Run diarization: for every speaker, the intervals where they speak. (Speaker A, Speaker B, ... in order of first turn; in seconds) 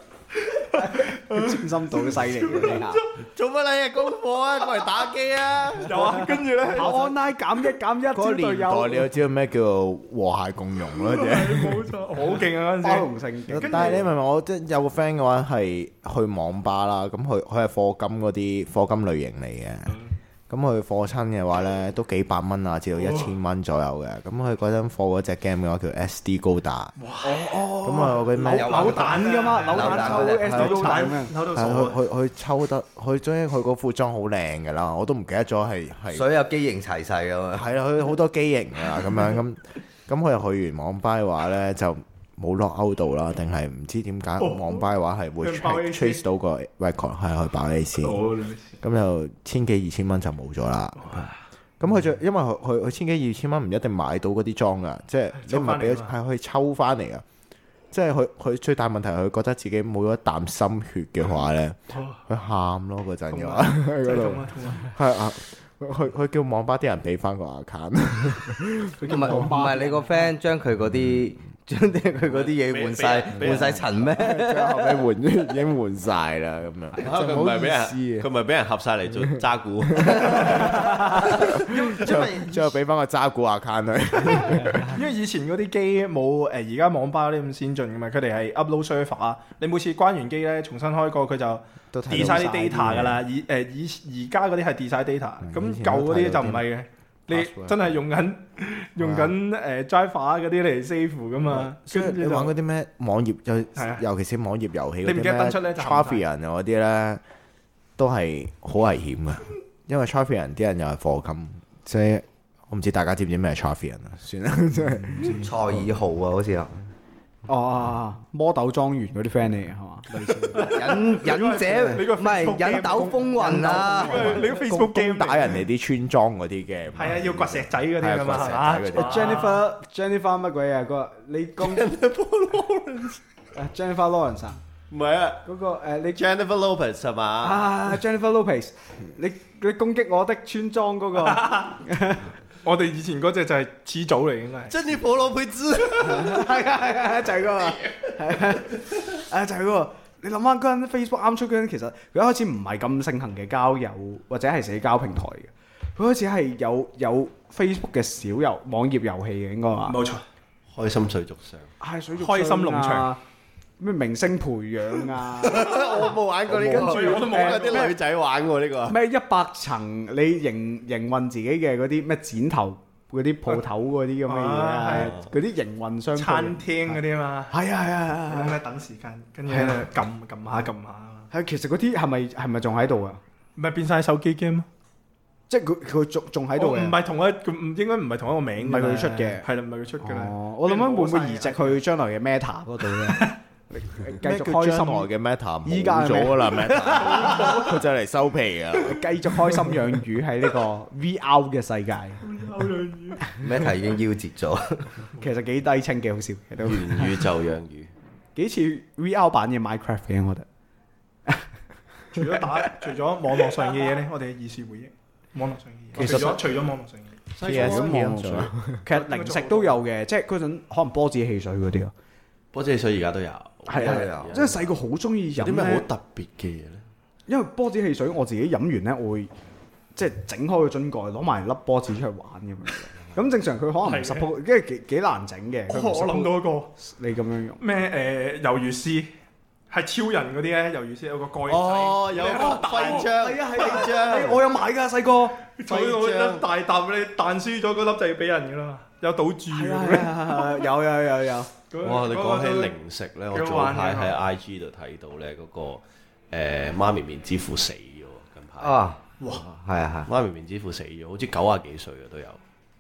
Speaker A: 0.3-3.0, 5.8-7.1, 10.9-14.1, 23.0-23.3, 27.0-32.0, 44.4-44.8, 45.4-46.2, 48.0-48.8, 55.4-56.1, 63.3-64.9, 80.3-81.2, 81.7-82.5, 84.8-102.5, 103.8-104.0, 105.0-106.2, 120.5-125.6, 126.9-129.7, 141.2-141.7, 142.6-144.7, 159.8-160.2, 162.2-163.2, 166.6-167.9, 174.2-175.2, 176.1-177.6, 178.2-181.3, 183.6-184.7, 186.6-191.8, 193.0-193.3, 197.0-197.8, 202.2-203.4, 212.1-217.2, 218.9-219.8, 233.8-234.3, 235.7-236.7, 237.6-239.1, 239.7-243.1, 245.6-250.7, 251.7-252.7, 253.3-254.2, 259.2-259.4
Speaker B: 0.8-3.0, 6.7-9.1, 12.8-13.9, 27.2-31.3, 69.0-70.3, 84.5-84.9, 117.5-121.0, 121.6-122.0, 122.8-124.9, 128.9-131.9, 133.5-134.6, 135.4-136.2, 137.4-142.3, 146.0-160.0, 161.8-163.2, 163.8-165.8, 166.5-168.0, 168.9-178.6, 179.5-179.8, 181.3-183.2, 185.5-187.0, 188.6-189.4, 190.0-195.1, 195.6-197.5, 198.8-202.2, 205.2-207.2, 208.3-210.4, 212.1-212.9, 216.0-216.4, 217.4-221.9, 223.7-225.8, 227.3-229.3, 229.9-237.6, 242.4-245.4, 249.5-251.5
Speaker C: 3.1-6.3, 72.2-74.1, 77.0-81.5, 131.6-133.2, 134.9-135.4, 136.1-137.7, 144.7-146.7, 160.7-161.7, 165.4-169.0, 174.9-175.2, 206.7-207.9, 216.0-216.4, 217.3-218.1, 222.5-224.6, 225.4-226.8, 241.5-244.4, 245.7-246.4, 251.8-258.8, 260.1-262.4
Speaker D: 8.1-11.9, 13.6-26.9, 27.8-29.1, 31.4-36.3, 37.5-48.2, 48.8-57.2, 57.9-69.5, 74.1-78.3, 79.9-80.4, 81.3-84.9, 91.9-93.2, 95.4-96.6, 97.3-97.9, 99.0-99.3, 101.5-107.2, 108.0-115.4, 124.4-129.4, 194.2-199.0, 217.4-218.8
Speaker E: 28.5-31.0, 36.1-37.7, 69.0-75.0, 115.2-116.7, 120.6-124.4, 165.5-167.3, 203.4-204.9, 223.7-224.3, 258.6-260.1